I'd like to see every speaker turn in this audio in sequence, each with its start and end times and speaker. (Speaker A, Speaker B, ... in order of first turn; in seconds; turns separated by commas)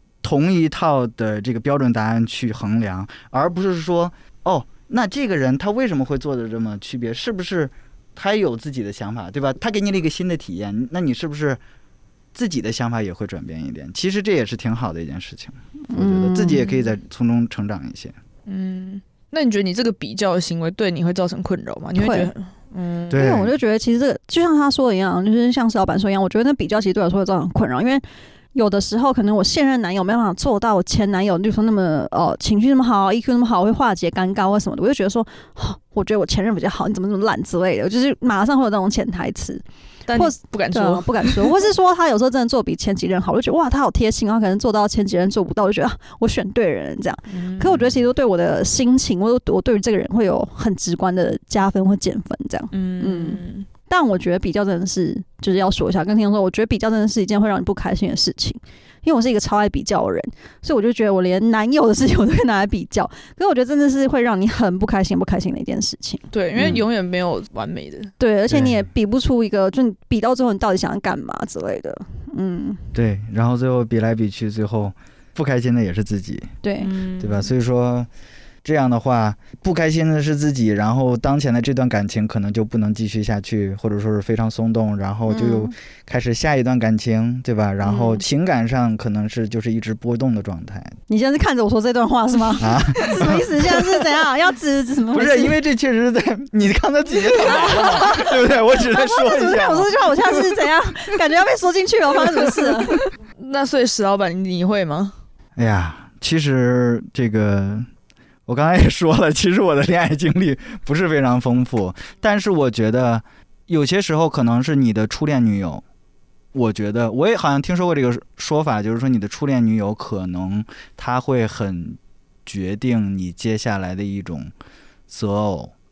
Speaker A: 0.2-11.6, Speaker A: 12.3-18.1, Speaker B: 15.9-16.9, Speaker C: 18.4-23.2, Speaker B: 21.9-22.3, Speaker A: 23.1-23.5, Speaker B: 23.1-39.6, Speaker C: 40.1-41.6, Speaker B: 40.1-66.8, Speaker C: 47.3-47.8, Speaker C: 52.7-53.7, Speaker C: 66.3-68.1, Speaker A: 66.6-66.8, Speaker B: 68.2-72.8, Speaker A: 68.5-68.8, Speaker A: 72.9-76.5, Speaker B: 76.6-76.9, Speaker C: 76.8-77.5, Speaker A: 77.2-78.1, Speaker A: 78.6-90.9, Speaker B: 85.3-85.7, Speaker C: 87.8-88.2, Speaker B: 91.1-95.6, Speaker A: 92.6-93.8, Speaker A: 95.1-100.6, Speaker B: 97.5-103.1, Speaker C: 103.3-105.1, Speaker A: 105.5-107.9, Speaker A: 108.5-115.8, Speaker A: 116.5-124.5, Speaker A: 125.1-125.7